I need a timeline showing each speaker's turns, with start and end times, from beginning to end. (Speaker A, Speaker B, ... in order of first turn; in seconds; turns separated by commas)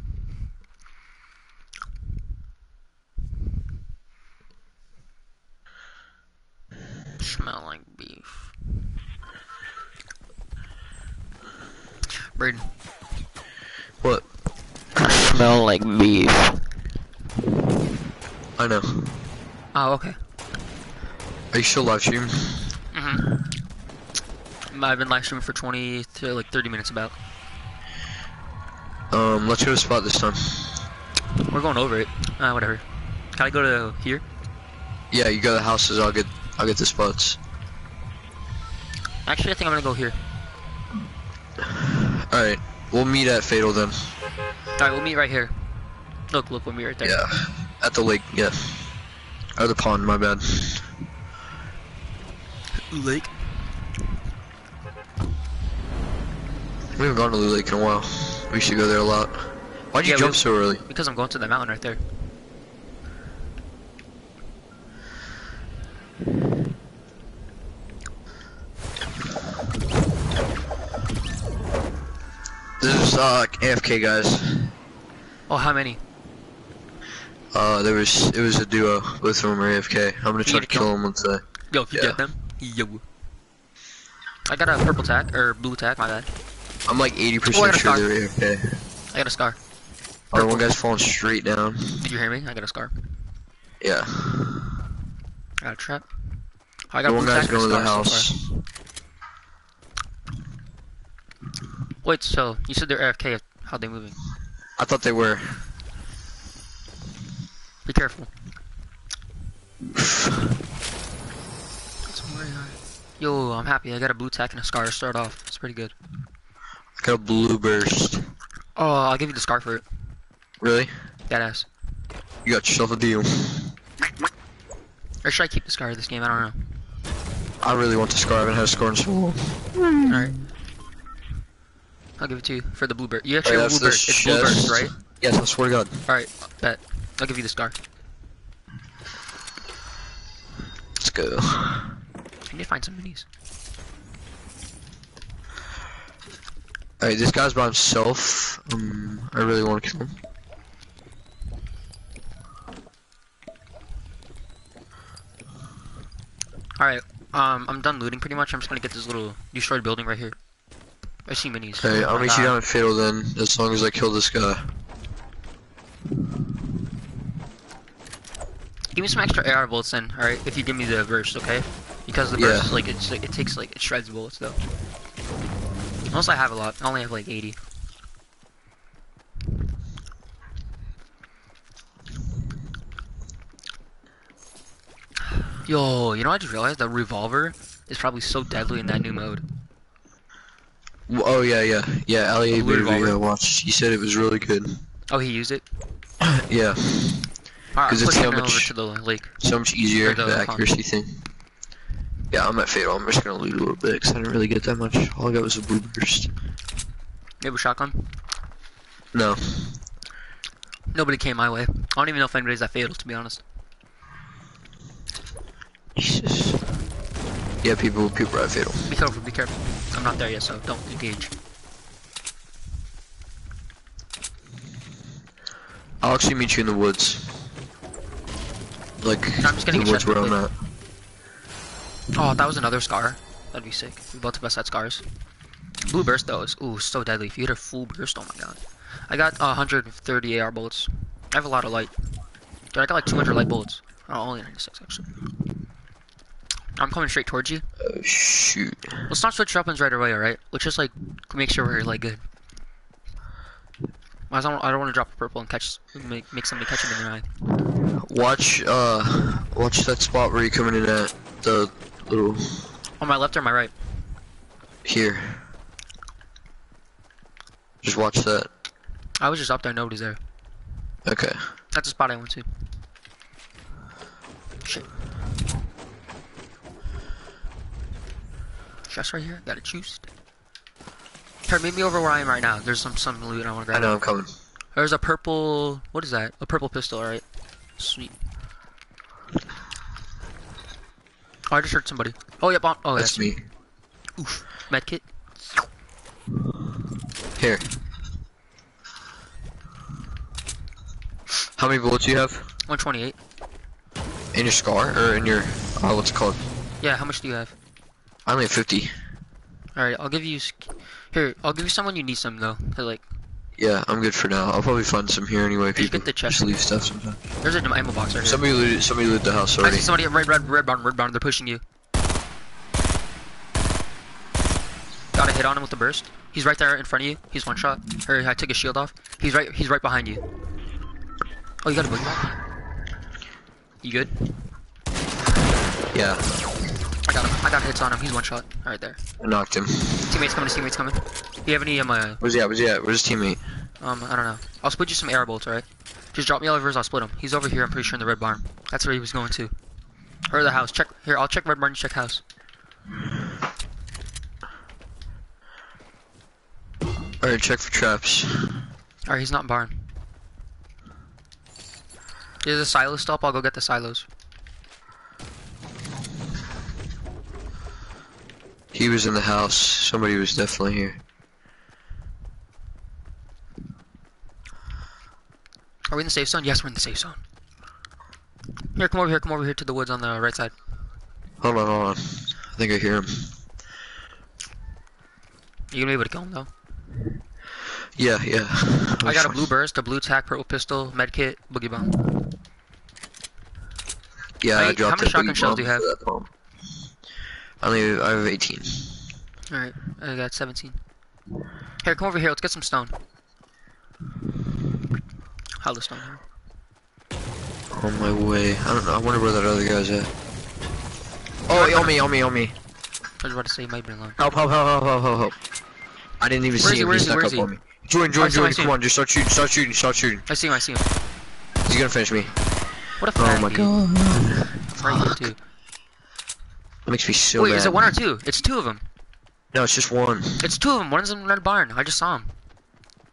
Speaker A: 7.2-8.5, Speaker A: 12.3-12.7, Speaker A: 15.6-16.2, Speaker B: 18.6-19.2, Speaker A: 19.7-20.2, Speaker B: 21.5-22.8, Speaker A: 22.9-23.3, Speaker A: 24.7-27.1, Speaker B: 29.1-30.8, Speaker A: 31.5-34.2, Speaker B: 35.1-37.4, Speaker A: 39.2-40.3, Speaker B: 41.7-44.1, Speaker A: 44.8-45.8, Speaker A: 46.3-47.3, Speaker B: 47.0-48.9, Speaker B: 49.6-50.9, Speaker A: 52.9-53.7, Speaker B: 57.0-60.8, Speaker A: 60.0-62.1, Speaker B: 72.8-74.7, Speaker A: 75.5-76.0, Speaker B: 77.5-82.2, Speaker A: 80.5-81.0, Speaker A: 81.7-83.0, Speaker A: 84.5-86.3, Speaker B: 86.9-88.8, Speaker A: 87.5-88.1, Speaker A: 89.1-89.6, Speaker B: 90.3-92.0, Speaker A: 90.3-90.8, Speaker A: 92.0-93.1, Speaker B: 93.8-94.7, Speaker A: 95.6-96.1, Speaker A: 96.9-98.3, Speaker B: 97.0-98.5, Speaker A: 102.0-104.2, Speaker B: 104.8-105.7, Speaker A: 107.8-108.3, Speaker A: 112.1-115.9, Speaker B: 117.0-118.3, Speaker A: 118.8-119.8, Speaker B: 120.6-120.9, Speaker A: 121.3-121.7, Speaker B: 122.4-123.7, Speaker A: 125.2-126.8, Speaker B: 127.6-129.7, Speaker A: 130.1-130.4, Speaker A: 132.2-135.0, Speaker B: 133.4-136.0, Speaker A: 136.1-137.8, Speaker B: 141.0-141.9, Speaker A: 142.5-143.3, Speaker B: 147.0-150.2, Speaker A: 156.8-160.4, Speaker A: 161.3-162.6, Speaker B: 161.8-164.7, Speaker A: 168.9-174.7, Speaker B: 172.4-172.8, Speaker A: 176.1-177.6, Speaker A: 185.7-189.4, Speaker B: 191.1-194.8, Speaker A: 192.5-193.2, Speaker A: 195.1-195.6, Speaker B: 196.2-197.3, Speaker A: 197.7-199.4, Speaker B: 197.9-198.7, Speaker B: 199.4-201.2, Speaker A: 200.0-200.7, Speaker B: 202.3-206.3, Speaker A: 207.4-208.2, Speaker B: 209.1-209.8, Speaker A: 210.9-213.4, Speaker B: 215.9-216.6, Speaker B: 217.6-218.9, Speaker A: 218.9-221.3, Speaker B: 226.0-227.3, Speaker B: 229.0-230.5, Speaker A: 229.4-230.4, Speaker A: 232.2-235.0, Speaker A: 235.9-241.9, Speaker A: 242.7-245.1, Speaker A: 246.8-247.7, Speaker B: 247.8-249.1, Speaker A: 249.1-252.2, Speaker A: 254.3-257.3, Speaker B: 258.0-262.7, Speaker A: 263.0-263.7, Speaker B: 264.9-265.4, Speaker B: 267.8-268.5, Speaker A: 269.2-270.2, Speaker B: 271.1-271.4, Speaker A: 271.7-272.5, Speaker A: 274.6-274.9, Speaker A: 278.9-280.1, Speaker A: 281.5-284.0, Speaker B: 283.7-284.3, Speaker A: 284.7-287.2, Speaker A: 287.8-288.2, Speaker A: 291.5-293.3, Speaker B: 293.0-293.4, Speaker A: 294.2-295.0, Speaker B: 297.4-297.7, Speaker B: 301.6-302.5, Speaker A: 302.7-303.2, Speaker B: 304.3-306.4, Speaker A: 306.8-307.5, Speaker B: 308.3-308.9, Speaker A: 309.8-313.1, Speaker B: 313.6-317.2, Speaker A: 315.8-316.6, Speaker A: 317.4-318.4, Speaker B: 318.2-319.9, Speaker A: 319.6-321.6, Speaker A: 325.1-330.2, Speaker A: 331.6-332.4, Speaker A: 333.8-334.4, Speaker B: 335.9-336.3, Speaker A: 337.1-339.0, Speaker B: 339.2-340.1, Speaker A: 340.1-342.2, Speaker B: 342.2-343.4, Speaker A: 343.8-349.5, Speaker A: 350.3-352.2, Speaker B: 357.2-358.6, Speaker A: 359.1-359.9, Speaker A: 362.4-364.1, Speaker B: 368.7-371.0, Speaker A: 375.9-377.2, Speaker A: 378.7-380.5, Speaker B: 381.4-383.3, Speaker A: 385.7-386.5, Speaker B: 388.0-389.4, Speaker A: 389.0-392.0, Speaker B: 394.4-396.3, Speaker A: 394.6-395.9, Speaker B: 397.6-399.0, Speaker A: 399.5-400.8, Speaker A: 401.8-403.0, Speaker A: 405.6-406.2, Speaker B: 407.7-410.1, Speaker B: 411.5-412.6, Speaker A: 411.5-412.0, Speaker A: 413.2-414.2, Speaker B: 414.2-415.4, Speaker B: 416.2-420.2, Speaker A: 416.6-417.5, Speaker A: 418.2-418.8, Speaker A: 420.3-420.9, Speaker B: 421.7-422.4, Speaker A: 423.0-423.8, Speaker B: 423.2-425.3, Speaker A: 424.8-425.4, Speaker B: 426.9-427.8, Speaker A: 427.4-428.9, Speaker B: 429.5-430.5, Speaker A: 430.4-432.4